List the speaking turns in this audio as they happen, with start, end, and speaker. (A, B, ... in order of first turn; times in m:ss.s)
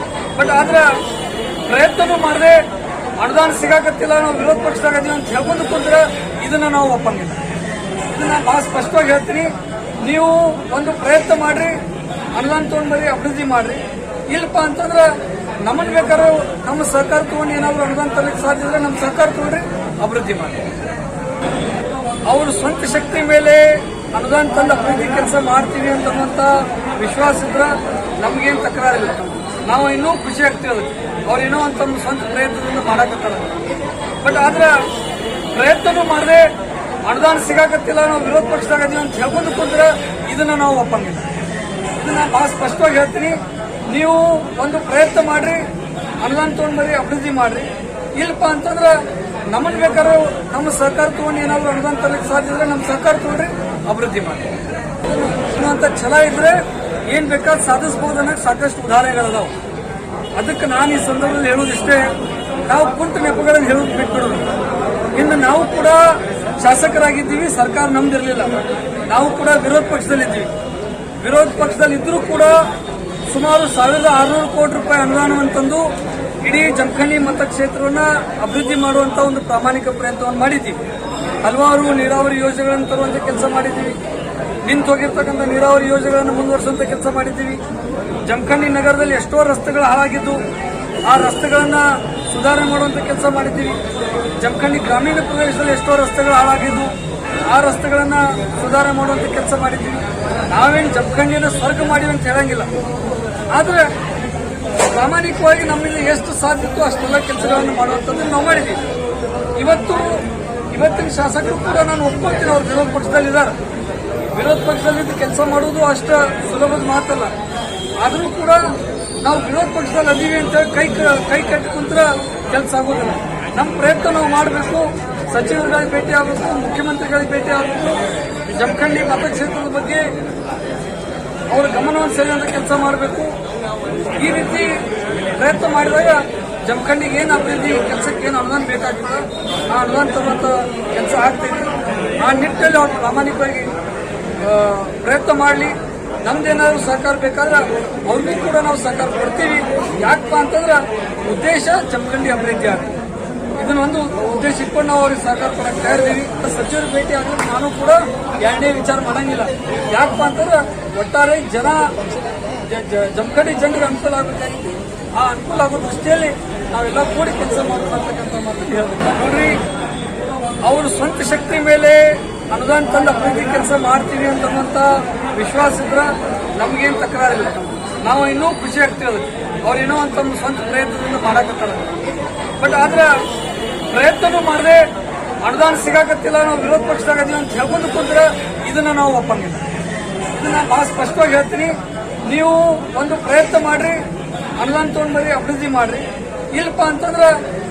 0:00.4-0:00.9 A
0:01.7-0:02.7 A
0:03.2-0:07.4 A
0:08.1-0:11.8 A
0:12.3-0:20.6 A
0:22.2-0:33.6 A
0:34.2-0:34.8 A
0:35.5-0:36.5 A
0:37.0-0:41.3 A
0:41.9-0:45.6 A
0:46.2-0:54.5 A
0:55.0-0:59.5 A
1:00.4-1:02.1 A
1:02.7-1:04.5 A
1:05.1-1:08.5 A
1:09.1-1:10.5 A
1:11.2-1:12.7 A
1:13.3-1:15.9 A
1:16.4-1:20.8 A
1:21.4-1:24.0 A
1:24.6-1:27.6 A
1:28.2-1:30.4 A
1:31.0-1:33.8 A
1:34.4-1:42.7 A
1:43.5-1:43.9 A
1:44.8-1:48.8 A
1:49.6-1:53.6 A
1:54.3-1:57.3 A
1:58.0-2:10.1 A
2:11.5-2:13.3 A
2:14.2-2:23.7 A
2:24.4-2:32.9 A
2:33.5-2:41.9 A
2:42.6-2:49.6 A
2:50.6-3:01.9 A
3:02.6-3:03.2 A
3:03.9-3:04.9 A
3:05.4-3:09.7 A
3:10.3-3:14.0 A
3:14.6-3:17.3 A